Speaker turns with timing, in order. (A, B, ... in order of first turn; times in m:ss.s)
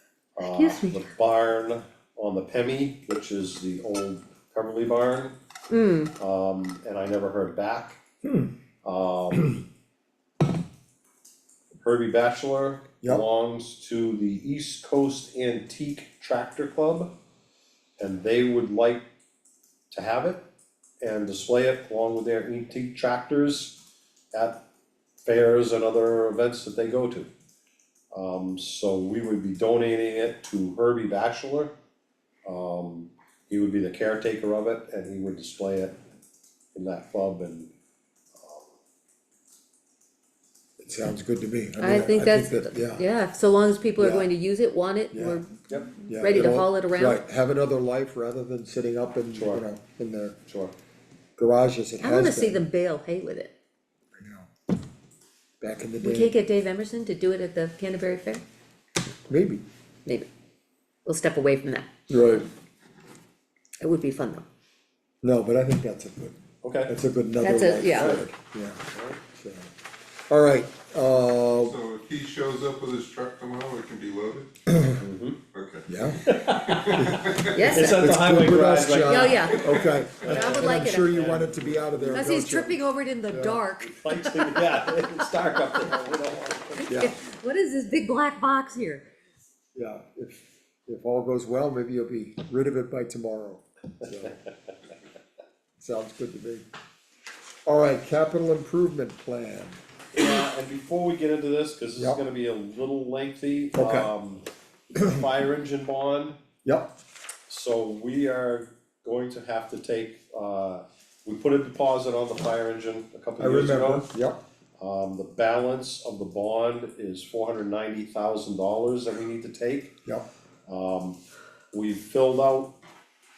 0:00.4-0:05.4 A
0:00.4-0:01.1 B
0:05.7-0:06.1 B
0:06.2-0:08.0 A
0:08.2-0:08.5 C
0:08.8-0:09.6 A
0:11.8-0:17.1 A
0:18.0-0:19.0 A
0:19.9-0:20.4 A
0:21.0-0:23.8 A
0:24.3-0:24.6 A
0:25.2-0:27.3 A
0:28.1-0:31.7 A
0:32.5-0:36.0 A
0:36.7-0:37.7 A
0:38.4-0:38.8 A
0:40.8-0:43.0 C
0:41.8-0:47.2 B
0:44.0-0:44.3 C
0:45.1-0:45.4 C
0:46.1-0:50.4 C
0:49.3-0:49.6 A
0:50.5-0:50.7 A
0:51.4-0:52.6 C
0:52.0-0:53.5 B
0:54.2-0:54.5 C
0:55.6-0:56.3 C
0:56.0-0:58.4 B
0:59.3-0:59.6 C
1:01.0-1:02.5 B
1:02.1-1:02.5 C
1:03.8-1:04.5 B
1:05.2-1:09.7 C
1:06.6-1:07.0 A
1:07.4-1:08.2 B
1:07.9-1:08.3 A
1:08.9-1:09.2 A
1:10.3-1:11.8 C
1:11.6-1:14.5 D
1:14.7-1:15.0 C
1:15.0-1:15.4 A
1:15.5-1:17.7 D
1:15.9-1:16.3 C
1:16.2-1:17.1 A
1:17.0-1:23.6 C
1:17.5-1:18.0 B
1:17.7-1:19.5 A
1:19.1-1:21.2 B
1:19.7-1:20.4 D
1:20.2-1:22.3 A
1:22.1-1:24.6 B
1:23.8-1:27.2 A
1:26.8-1:29.1 B
1:26.9-1:27.2 C
1:29.8-1:34.4 C
1:35.8-1:36.7 C
1:37.7-1:39.8 C
1:40.1-1:46.4 A
1:43.7-1:44.1 C
1:45.0-1:45.2 C
1:46.6-1:46.9 C
1:47.5-1:54.1 A
1:53.4-1:54.4 C
1:54.8-1:59.9 A
2:00.7-2:01.2 A
2:01.7-2:02.7 A